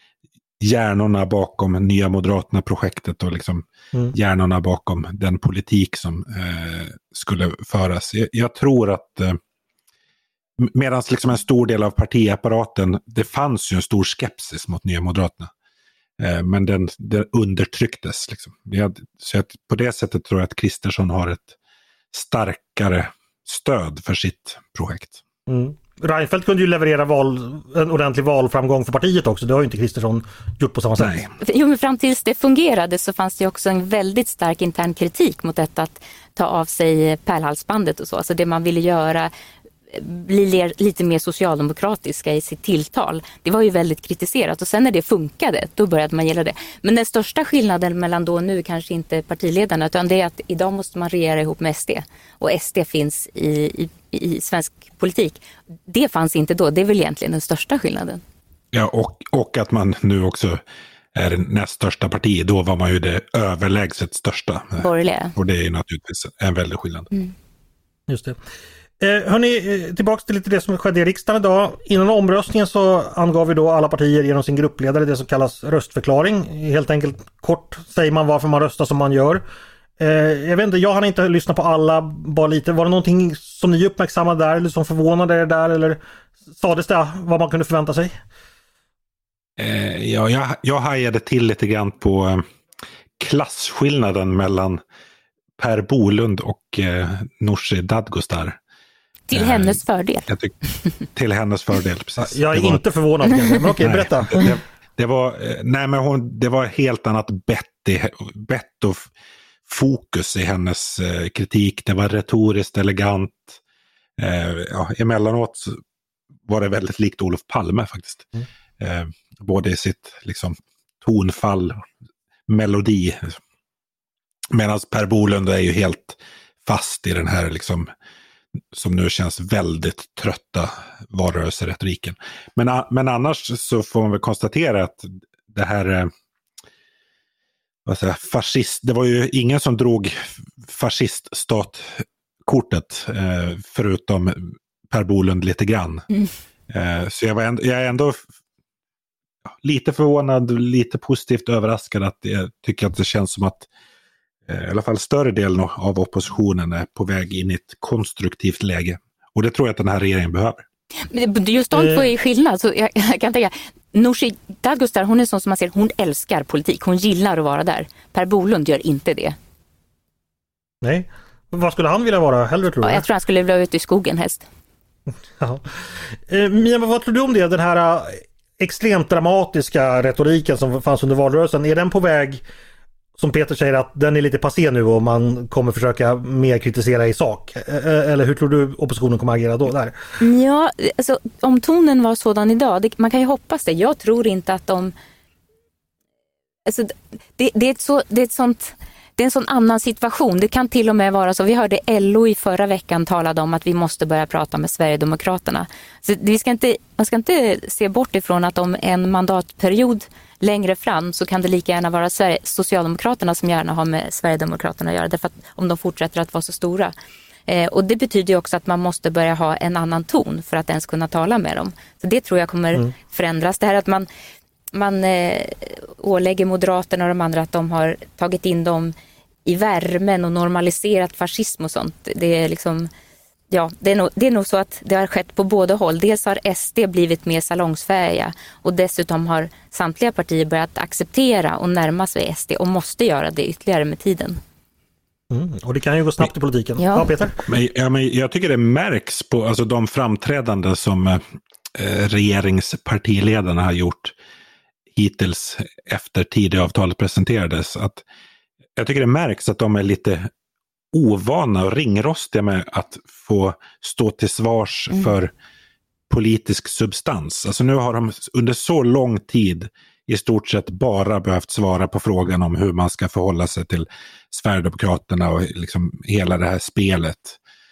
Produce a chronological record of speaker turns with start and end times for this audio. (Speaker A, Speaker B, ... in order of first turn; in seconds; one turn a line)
Speaker A: 0.6-9.4
Speaker A: 10.6-15.5
Speaker A: 16.2-21.5
Speaker A: 22.1-25.2
Speaker B: 25.5-31.2
Speaker A: 31.0-31.3
Speaker C: 31.4-39.3
Speaker C: 39.9-58.2
Speaker A: 58.7-60.6
Speaker A: 61.1-67.1
Speaker C: 64.8-65.3
Speaker B: 68.1-68.4
Speaker B: 69.0-79.4
Speaker B: 80.0-86.0
Speaker B: 86.6-88.1
Speaker A: 89.6-92.4
Speaker A: 93.2-94.8
Speaker A: 95.6-98.6
Speaker C: 99.3-100.3
Speaker A: 99.3-100.5
Speaker A: 101.1-102.8
Speaker B: 102.2-104.5
Speaker A: 103.8-109.1
Speaker A: 109.7-113.6
Speaker A: 114.2-115.8
Speaker A: 116.5-118.3
Speaker A: 118.8-121.8
Speaker A: 122.5-123.4
Speaker A: 124.5-127.9
Speaker A: 128.7-136.1
Speaker A: 137.8-146.1
Speaker A: 146.7-148.2
Speaker A: 149.6-153.7
Speaker A: 154.5-160.6
Speaker C: 161.1-169.3
Speaker B: 161.7-162.0
Speaker B: 170.8-173.0
Speaker C: 172.8-174.4
Speaker B: 175.4-175.7
Speaker B: 176.3-182.4
Speaker B: 183.2-190.0
Speaker C: 190.2-194.9
Speaker C: 196.7-216.9
Speaker C: 217.5-224.1
Speaker C: 224.7-228.9
Speaker C: 229.4-232.9
Speaker C: 233.5-244.4
Speaker B: 245.3-247.4
Speaker C: 246.8-247.1
Speaker A: 247.5-251.2
Speaker A: 251.7-254.1
Speaker A: 254.9-258.0
Speaker A: 258.8-260.3
Speaker A: 260.9-265.3
Speaker A: 266.1-277.4